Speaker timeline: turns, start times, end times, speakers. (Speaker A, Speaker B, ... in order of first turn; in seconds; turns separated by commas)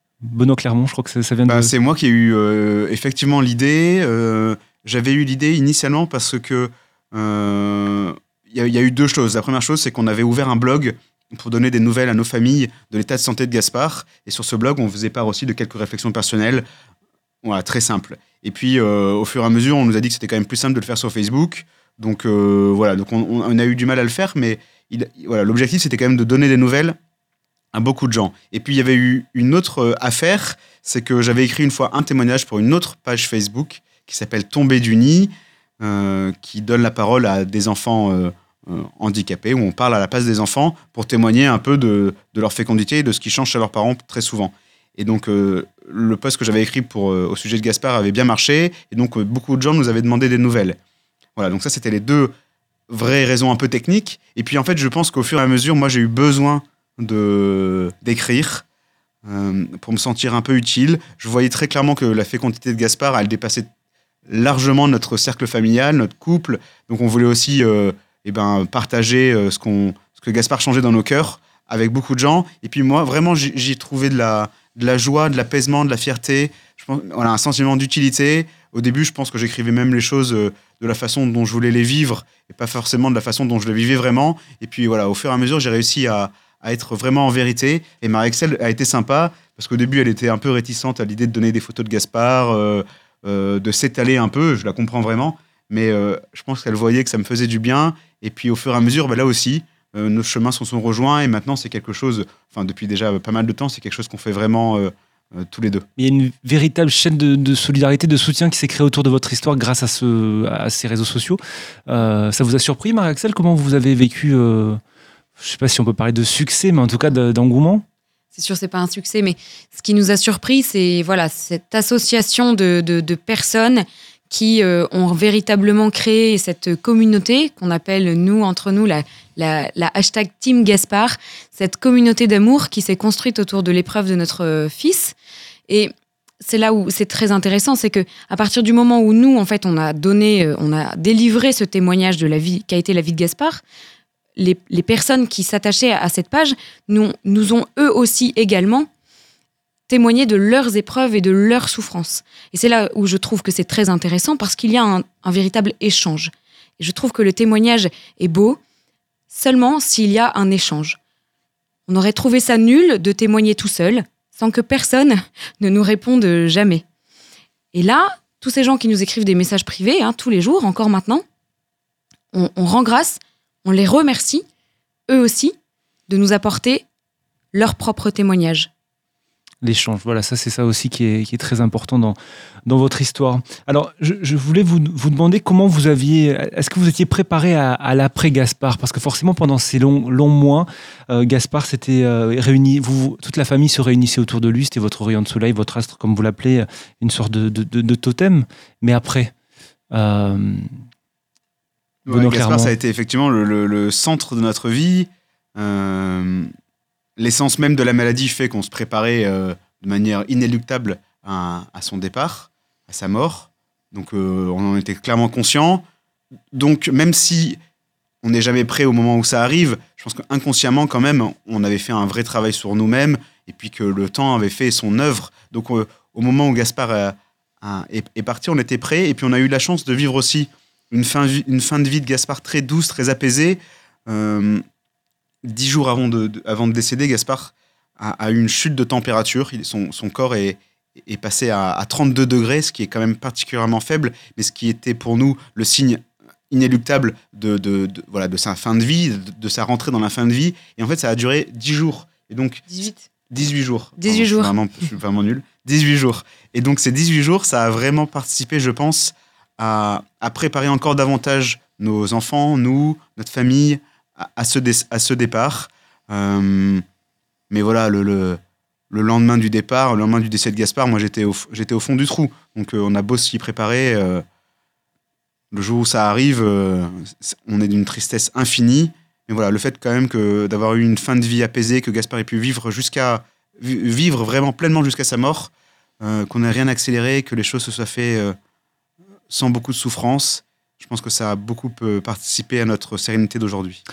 Speaker A: 0.2-1.7, Speaker B: 1.5-16.6, Speaker B: 17.4-27.0, Speaker B: 27.7-50.8, Speaker B: 51.4-52.3, Speaker B: 52.9-58.6, Speaker B: 59.2-63.7, Speaker B: 64.3-105.9, Speaker A: 106.0-114.8, Speaker A: 115.4-117.8, Speaker C: 118.3-135.2, Speaker C: 135.7-143.6, Speaker C: 144.4-148.9, Speaker C: 149.9-158.6, Speaker C: 159.3-161.0, Speaker C: 161.9-166.8, Speaker C: 167.7-171.2, Speaker C: 172.3-174.5, Speaker C: 175.1-175.6, Speaker C: 176.1-176.8, Speaker C: 177.5-178.7, Speaker A: 179.6-199.3, Speaker A: 199.9-200.8, Speaker B: 202.1-206.5, Speaker A: 202.1-202.7, Speaker B: 207.2-215.8, Speaker B: 216.5-217.6, Speaker B: 218.2-234.6, Speaker B: 235.4-252.7, Speaker C: 252.7-253.0, Speaker B: 253.3-266.8, Speaker C: 254.0-254.5, Speaker B: 267.5-274.2, Speaker B: 275.5-288.4, Speaker B: 289.3-293.8